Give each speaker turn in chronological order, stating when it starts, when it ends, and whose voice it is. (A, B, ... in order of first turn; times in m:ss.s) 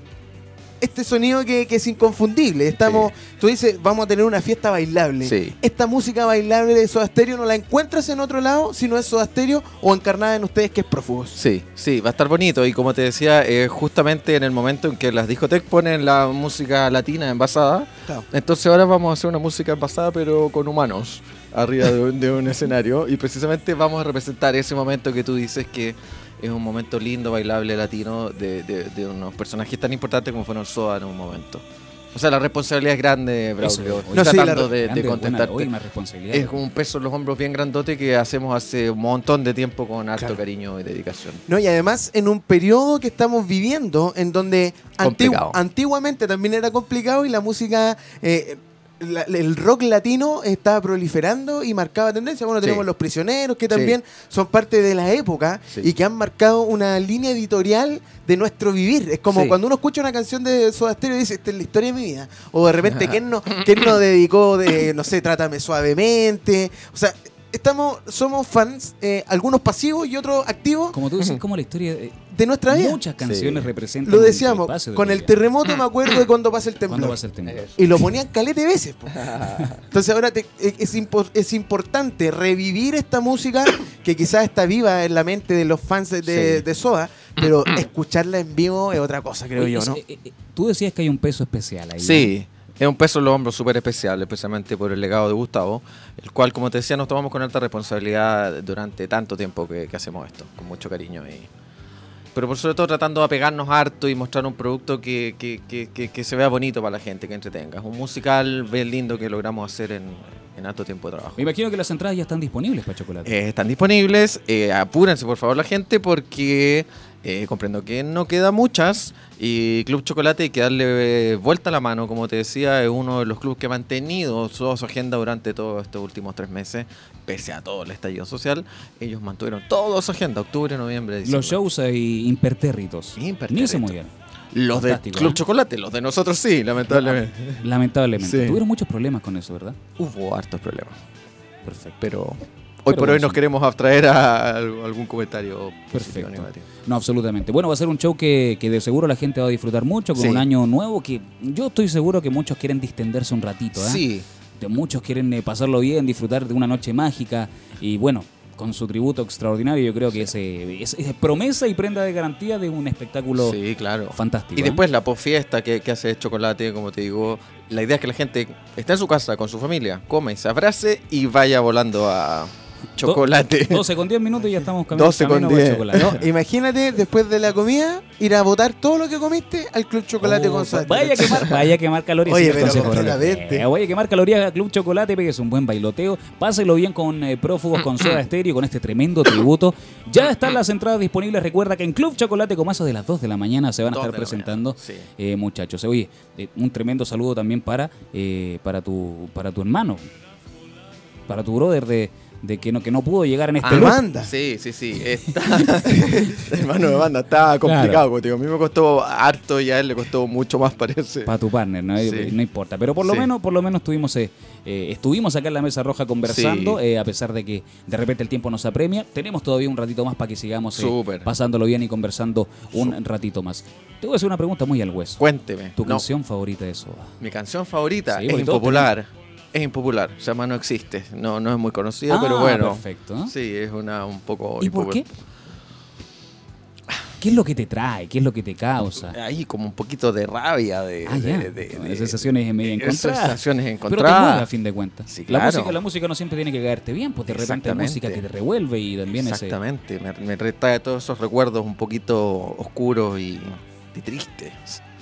0:00.8-0:11.4 A
0:02.8-0:03.1 B
0:05.2-0:05.6 B
0:11.4-0:31.6 B
0:32.1-0:35.7 B
0:33.6-0:36.6 C
0:34.1-0:34.7 A
0:36.3-0:41.4 B
0:41.5-1:11.0 A
0:45.0-0:45.6 B
0:52.6-0:52.9 B
0:53.7-0:54.0 B
0:59.3-0:59.6 B
1:02.9-1:03.7 B
1:10.9-1:12.2 C
1:12.3-1:13.0 A
1:12.7-1:15.3 C
1:13.2-1:13.7 B
1:14.0-1:17.2 A
1:16.9-1:17.7 C
1:17.5-1:17.9 B
1:17.8-1:30.0 A
1:19.1-1:19.8 B
1:26.3-1:26.6 B
1:29.6-1:32.3 C
1:32.0-1:41.5 B
1:42.4-1:51.5 B
1:51.4-1:53.3 C
1:53.2-2:11.6 B
2:11.2-2:14.1 C
2:13.2-2:14.0 B
2:14.5-2:17.7 B
2:14.7-2:15.4 C
2:16.9-2:19.8 C
2:18.2-2:18.6 B
2:20.0-2:20.9 B
2:21.6-2:22.0 C
2:22.0-2:26.7 B
2:22.9-2:23.4 C
2:25.9-2:34.0 C
2:30.2-2:30.5 B
2:33.8-2:34.3 B
2:34.6-2:43.6 C
2:43.4-2:53.9 B
2:44.1-2:44.8 C
2:53.0-2:56.2 C
2:54.9-2:56.2 B
2:56.0-3:01.6 A
3:00.2-3:20.0 C
3:02.2-3:03.7 A
3:02.5-3:03.0 B
3:13.8-3:15.1 B
3:21.3-3:24.0 C
3:23.6-3:31.3 B
3:23.7-3:24.3 A
3:27.6-3:28.0 C
3:31.3-3:45.2 C
3:32.0-3:32.4 B
3:33.0-3:33.3 B
3:36.2-3:36.8 B
3:40.7-3:41.3 B
3:45.2-3:46.0 B
3:45.8-3:47.1 C
3:47.2-3:55.0 B
3:48.1-3:48.9 C
3:52.1-3:53.3 C
3:54.6-3:55.0 C
3:57.2-3:59.2 C
3:59.1-4:04.5 B
4:01.0-4:09.6 C
4:05.1-4:05.8 B
4:07.3-4:08.2 B
4:09.1-4:14.8 B